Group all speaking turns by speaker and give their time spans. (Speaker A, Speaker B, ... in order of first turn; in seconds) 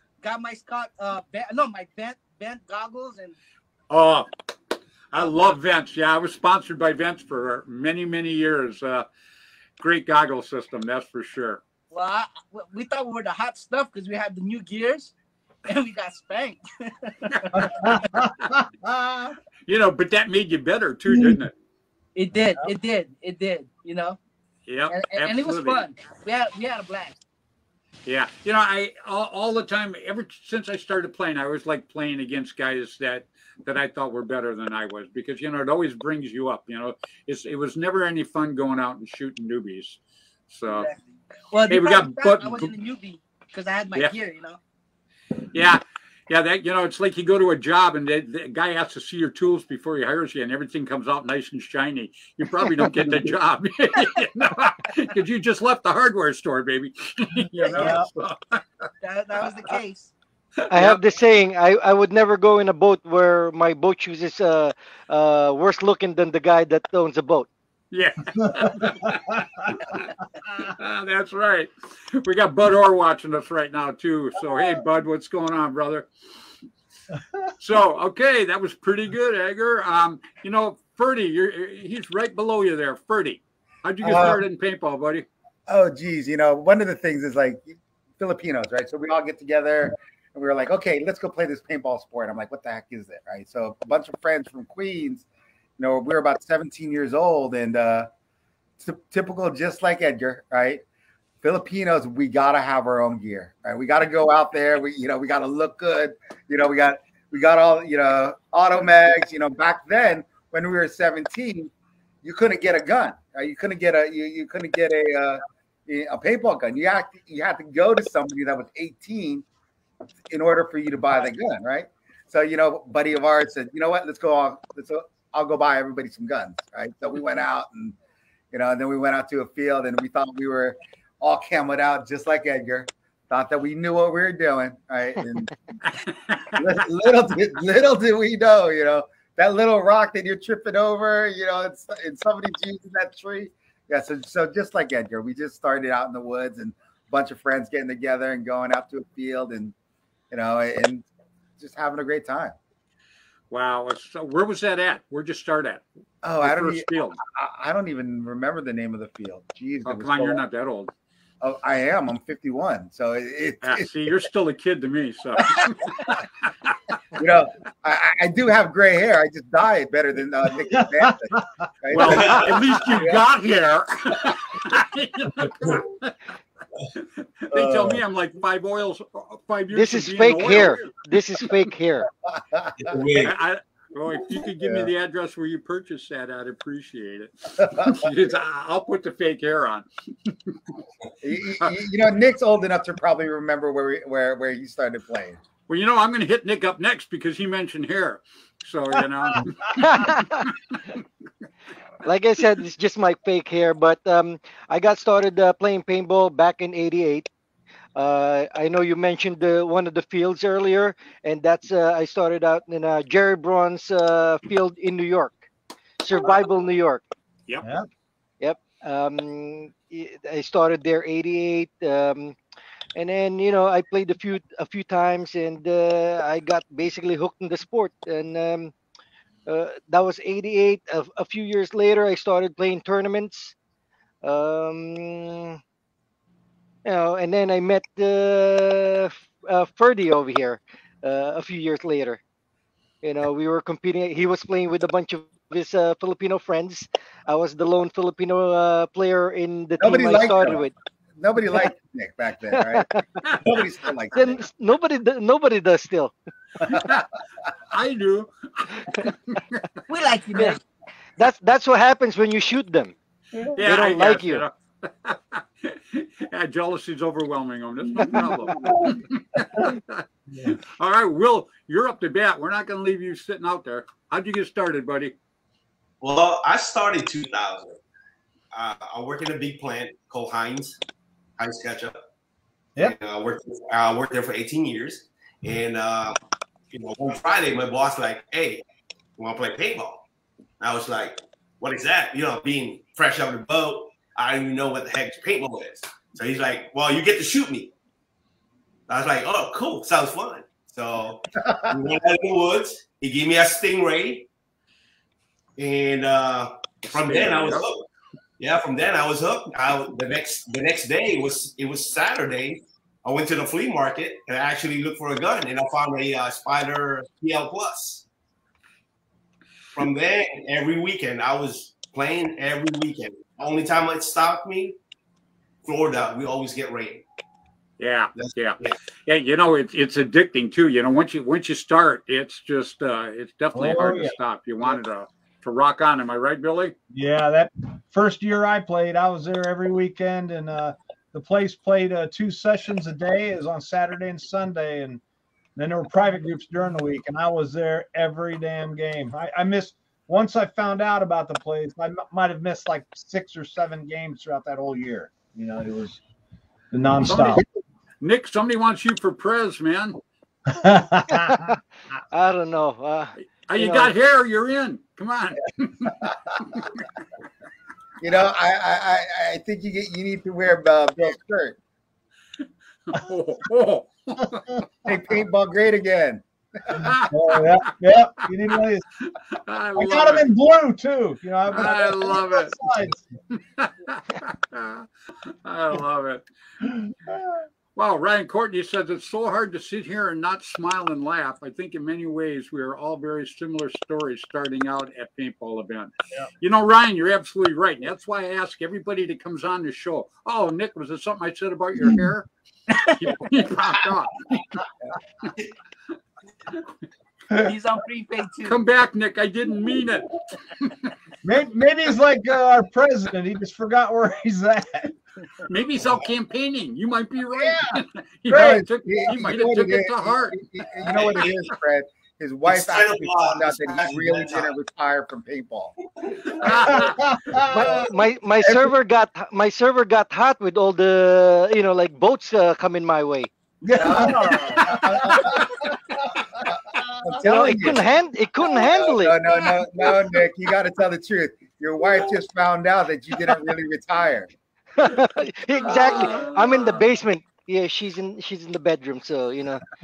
Speaker A: 0.2-3.4, 11.9-15.1, 15.7-18.1, 22.2-24.2, 24.9-27.2, 40.7-44.6, 57.7-58.0, 59.0-60.1, 259.9-260.6, 407.3-408.6
Speaker B: 3.9-4.3, 5.1-9.1, 9.8-11.6, 17.3-18.6, 19.7-21.5, 24.7-25.8, 28.1-40.9, 41.7-42.7, 45.5-58.6, 60.7-61.0, 67.9-76.1, 77.6-85.3, 135.8-136.6, 153.5-155.8, 156.4-157.2, 159.8-160.9, 163.6-166.9, 171.9-176.2, 177.0-181.5, 183.2-190.3, 195.7-201.0, 257.7-259.6, 263.6-270.0, 270.8-275.1, 306.9-307.7, 327.8-336.8, 357.1-357.4, 358.0-360.0, 363.2-366.7, 372.9-374.6, 376.7-377.7, 379.1-380.3, 381.5-382.7, 383.3-386.3, 387.8-404.6, 408.4-410.9, 415.5-420.4, 426.4-427.0, 445.6-446.8
Speaker C: 17.6-19.3, 21.1-21.4, 57.6-58.1, 68.4-69.3, 170.8-171.5, 199.3-199.8, 263.3-263.6, 268.0-269.8, 270.3-270.6, 333.5-334.8, 336.9-345.0, 345.6-356.0, 356.7-357.4, 360.5-361.4, 377.1-378.8, 379.8-383.1, 386.8-387.4, 411.2-414.9, 417.4-417.8, 426.5-427.8, 433.6-435.8, 436.8-437.2
Speaker D: 60.7-67.5, 179.7-182.1, 199.8-200.4, 202.0-207.3, 208.0-215.4, 216.0-217.0, 218.4-222.3, 223.0-228.7, 229.5-233.5, 234.2-235.6, 236.8-242.2, 243.0-250.7, 252.6-253.0, 254.1-256.8, 261.2-262.9, 263.6-264.4, 361.1-361.6, 362.1-363.9, 427.5-433.3, 437.3-439.1, 444.8-449.6
Speaker E: 84.0-84.4, 85.7-95.3, 95.8-98.1, 98.8-100.8, 101.4-111.7, 112.2-119.5, 120.3-128.0, 128.5-135.5, 136.5-149.8, 150.3-151.1, 151.6-152.6, 156.2-160.4, 161.4-164.1, 167.2-173.2, 177.5-178.0, 182.3-183.0, 184.6-184.9, 187.6-188.0, 191.2-195.4, 249.8-252.9, 253.4-254.4, 368.0-371.6, 374.9-376.2, 418.3-425.8, 426.5-426.7, 427.6-427.9, 428.4-428.7, 433.7-435.5, 437.0-437.9, 438.5-444.3
Speaker F: 172.0-172.5, 182.8-183.4, 276.0-277.8, 278.5-280.8, 281.4-282.0, 282.8-286.2, 286.7-288.6, 289.2-290.1, 290.6-297.7, 298.9-304.3, 305.6-307.9, 308.4-318.1, 319.8-324.8, 325.6-327.1, 328.1-328.8, 420.9-421.3, 422.5-424.5